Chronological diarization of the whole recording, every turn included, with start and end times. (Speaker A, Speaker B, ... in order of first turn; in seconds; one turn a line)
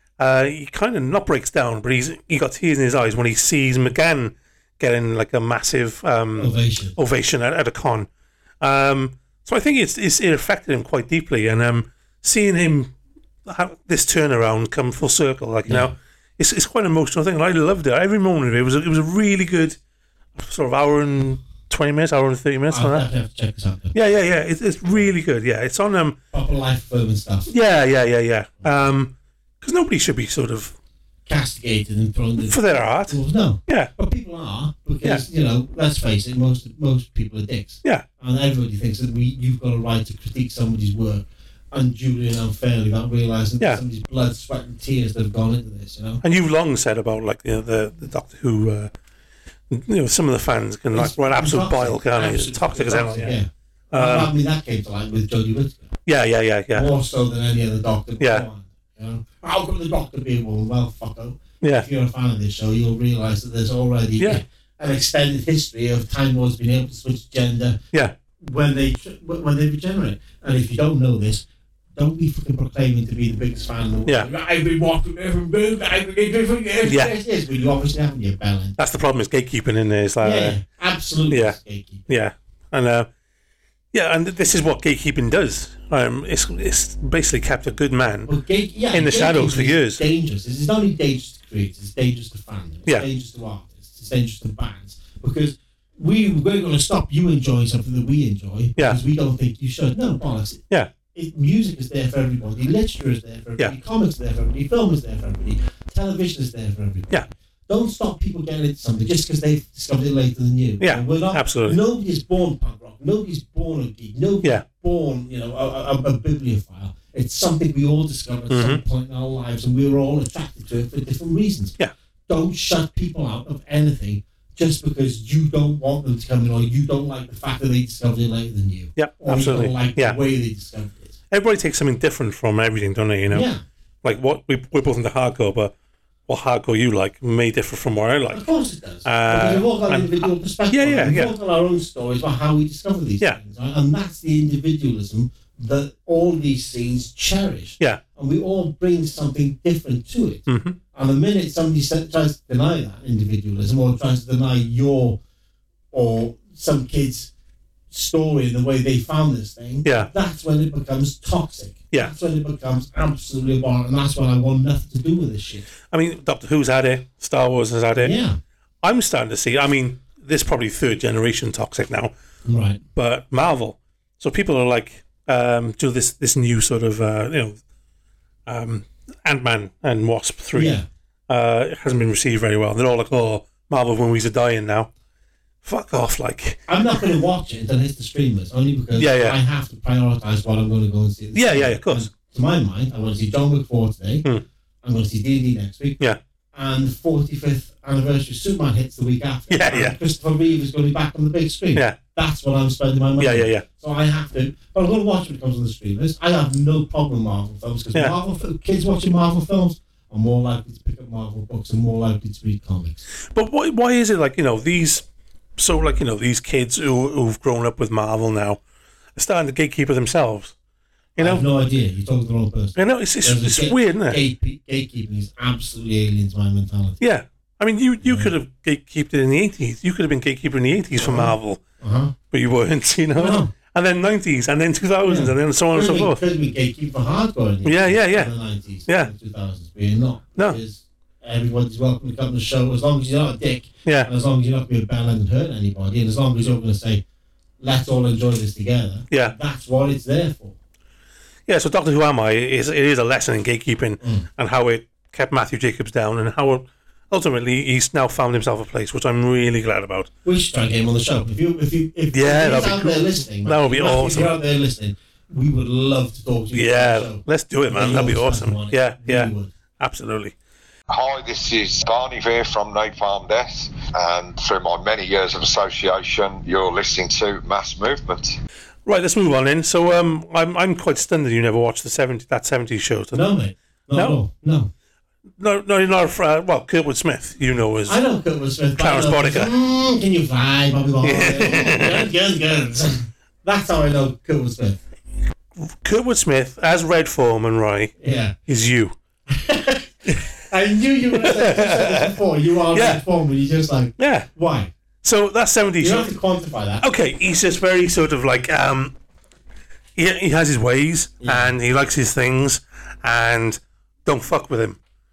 Speaker A: 0.2-8.1
Speaker B: 6.3-6.9
Speaker A: 8.6-12.9
Speaker A: 13.4-19.8
Speaker B: 15.7-15.9
Speaker A: 20.4-23.1
Speaker B: 22.7-23.9
Speaker A: 23.9-26.2
Speaker B: 26.3-27.5
Speaker A: 27.5-30.7
Speaker B: 31.2-46.2
Speaker A: 32.4-33.9
Speaker A: 46.2-48.9
Speaker A: 49.7-53.4
Speaker B: 50.9-55.9
Speaker A: 53.9-54.3
Speaker A: 56.0-56.9
Speaker B: 56.7-67.8
Speaker A: 58.2-58.4
Speaker A: 61.6-61.9
Speaker B: 68.4-78.8
Speaker A: 76.8-77.2
Speaker A: 78.8-80.6
Speaker B: 80.2-82.0
Speaker A: 81.3-83.1
Speaker A: 83.9-88.3
Speaker B: 88.3-121.8
Speaker A: 88.9-90.0
Speaker A: 110.8-111.8
Speaker A: 118.5-118.8
Speaker B: 122.3-131.2
Speaker A: 129.0-130.2
Speaker A: 131.3-133.5
Speaker B: 133.3-133.6
Speaker A: 134.0-135.7
Speaker A: 136.3-138.4
Speaker B: 138.3-155.2
Speaker A: 139.0-141.3
Speaker A: 150.5-150.8
Speaker B: 155.9-157.3
Speaker B: 157.9-165.7
Speaker A: 159.8-160.1
Speaker A: 165.9-168.1
Speaker B: 168.0-168.4
Speaker A: 168.8-172.1
Speaker B: 172.4-172.8
Speaker A: 172.9-177.6
Speaker A: 178.5-180.8
Speaker B: 180.5-180.8
Speaker A: 181.3-184.9
Speaker A: 185.6-187.1
Speaker B: 186.7-194.2
Speaker A: 189.0-189.4
Speaker A: 191.3-192.1
Speaker B: 194.8-196.0
Speaker B: 196.5-213.0
Speaker A: 199.5-199.9
Speaker A: 203.2-203.7
Speaker A: 213.3-215.0
Speaker A: 215.6-218.6
Speaker A: 219.2-220.5
Speaker A: 221.2-221.4
Speaker B: 221.2-227.0
Speaker A: 222.8-224.2
Speaker A: 227.0-231.6
Speaker B: 228.0-228.3
Speaker B: 231.0-232.1
Speaker A: 232.3-236.2
Speaker B: 233.1-233.5
Speaker B: 235.0-247.0
Speaker A: 237.6-238.3
Speaker A: 238.8-239.1
Speaker A: 243.8-244.1
Speaker B: 247.6-250.5
Speaker A: 251.5-260.1
Speaker B: 254.0-254.2
Speaker B: 260.2-269.5
Speaker A: 262.1-264.4
Speaker A: 266.5-270.3
Speaker C: 270.9-278.4
Speaker A: 278.9-283.3
Speaker B: 283.1-284.7
Speaker A: 283.9-284.2
Speaker A: 285.4-288.0
Speaker B: 287.9-294.8
Speaker A: 288.8-289.5
Speaker A: 291.0-292.0
Speaker A: 295.6-297.9
Speaker B: 298.0-298.3
Speaker A: 298.4-298.9
Speaker B: 299.3-304.7
Speaker A: 301.1-302.1
Speaker A: 302.7-303.0
Speaker A: 304.0-304.3
Speaker A: 305.0-306.1
Speaker B: 305.8-306.8
Speaker A: 306.8-308.9
Speaker A: 309.9-314.8
Speaker B: 311.2-311.5